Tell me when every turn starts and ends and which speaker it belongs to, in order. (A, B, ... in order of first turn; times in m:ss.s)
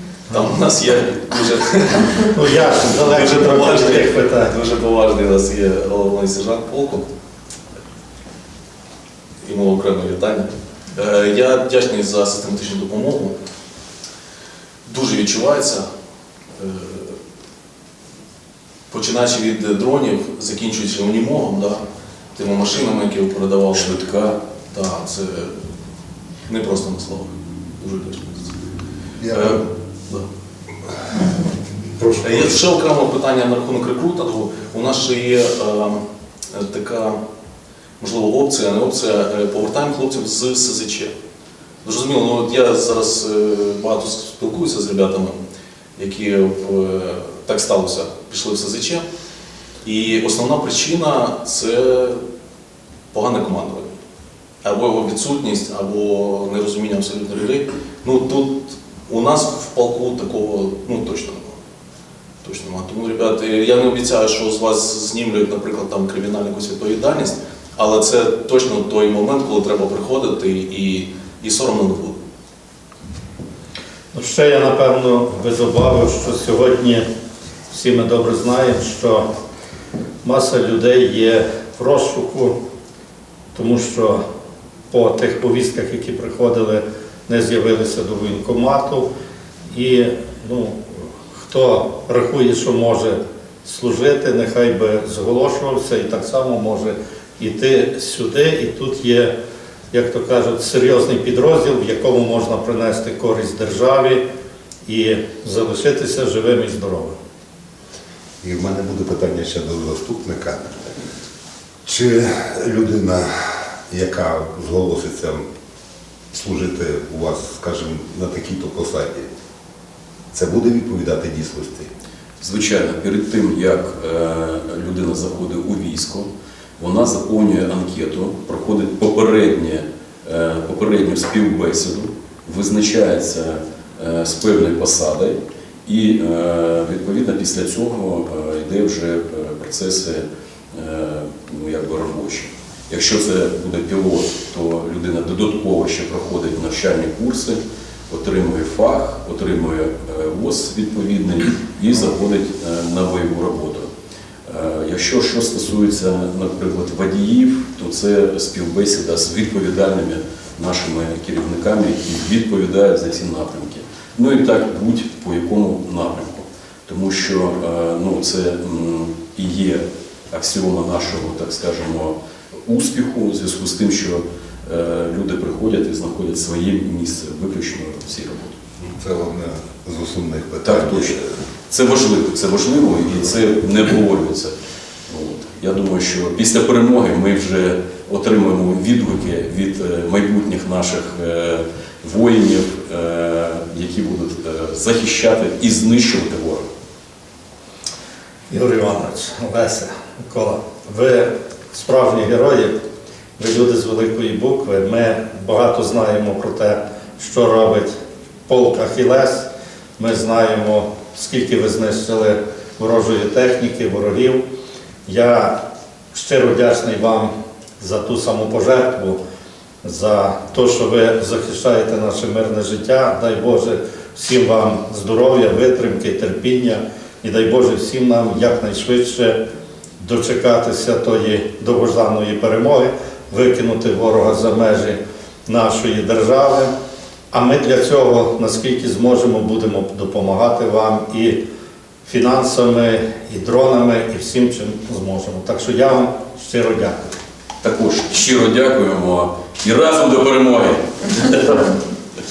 0:00.3-0:07.0 A
0:02.3-0:04.5 B
0:09.4-0:13.4 A
0:14.9-0:15.9 A
0:16.6-0:17.2 A
0:18.9-0:21.8 A
0:22.4-0:24.0 A
0:23.7-0:24.4 C
0:24.7-0:25.5 A
0:26.5-0:28.5 A
0:29.2-0:29.6 D
0:32.0-0:32.7 D
0:32.2-0:36.0 A
0:36.5-0:37.2 A
0:38.0-0:41.1 A
0:41.8-0:45.4 A
0:46.0-0:49.0 A
0:49.8-0:52.2 A
0:53.1-0:53.9 A
0:54.6-1:01.6 A
1:02.4-1:12.2 A
1:14.1-1:17.0 B
1:17.7-1:19.3 B
1:20.2-1:22.6 B
1:23.5-1:24.2 B
1:24.9-1:29.1 B
1:29.7-1:39.3 B
1:39.9-1:44.2 B
1:44.8-1:47.2 B
1:48.4-1:51.0 D
1:51.8-1:53.3 D
1:53.9-1:55.4 D
1:56.3-1:59.3 D
2:00.3-2:01.9 D
2:02.4-2:33.9 C
2:34.5-2:58.6 C
2:58.8-3:01.2 D
3:00.6-3:04.5 C
3:05.1-3:16.6 C
3:18.5-3:22.7 B
3:23.4-3:27.9 B
3:28.5-3:34.4 B
3:35.1-3:39.2 B
3:39.8-3:49.4 B
3:50.0-3:56.7 B
3:57.3-4:01.4 B
4:02.1-4:07.1 B
4:07.6-4:11.7 C